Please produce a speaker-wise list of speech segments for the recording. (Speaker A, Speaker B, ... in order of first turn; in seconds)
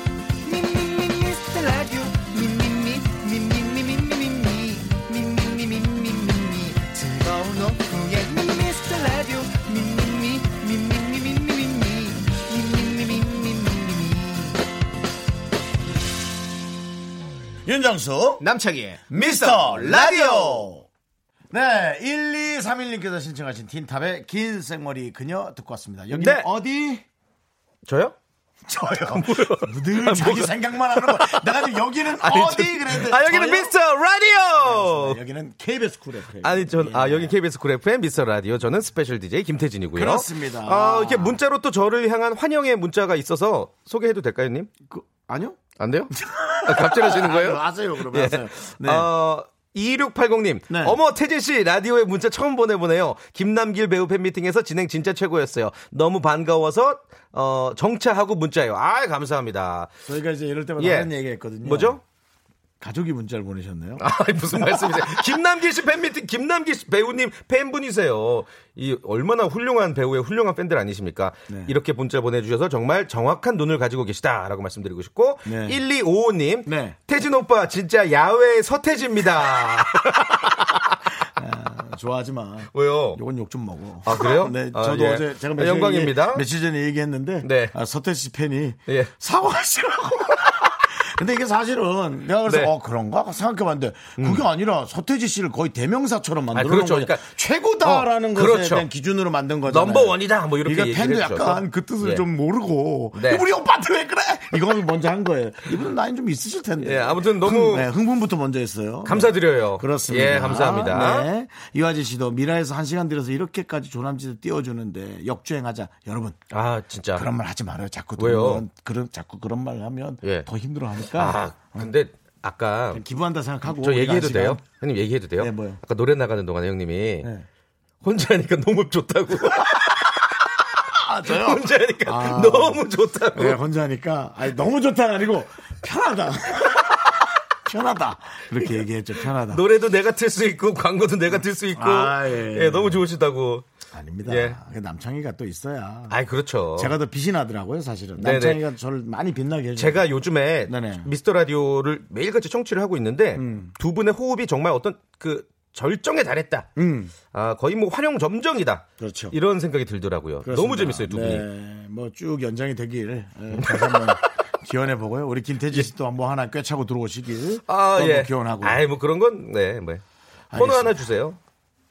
Speaker A: 0.4-14.6
Speaker B: 17.6-18.4, 19.1-20.9, 21.5-27.0, 28.6-33.7, 34.5-37.3, 39.9-41.4, 44.9-45.6, 46.1-49.1, 50.7-51.0, 60.1-62.0, 62.8-65.3, 71.5-71.7, 75.4-75.8, 76.7-77.0, 81.3-116.4, 117.1-121.9, 122.9-124.6, 125.4-125.8, 129.6-129.9, 130.8-132.8, 133.3-139.6, 141.7-143.0, 143.9-146.2, 146.8-151.1, 153.3-153.7, 156.8-157.1, 159.0-159.3, 160.4-168.8, 170.5-171.1
Speaker C: 18.4-20.6, 26.1-26.4, 27.9-28.1, 29.1-35.2, 36.4-44.7, 45.8-46.1, 46.6-59.9, 60.8-61.1, 61.6-62.0, 64.0-80.9, 82.7-83.2, 84.0-86.4, 87.4-87.7, 94.2-94.4, 96.5-97.3, 97.8-98.8, 99.7-102.2, 103.1-103.4, 106.8-107.9, 109.0-111.3, 116.5-117.3, 118.2-118.7, 121.1-123.0, 123.8-127.3, 128.0-129.9, 131.2-133.6, 139.4-143.6, 144.2-144.6, 146.1-146.9, 148.2-148.6, 149.8-156.7, 157.3-161.4, 163.5-164.2, 167.7-170.0, 170.5-171.4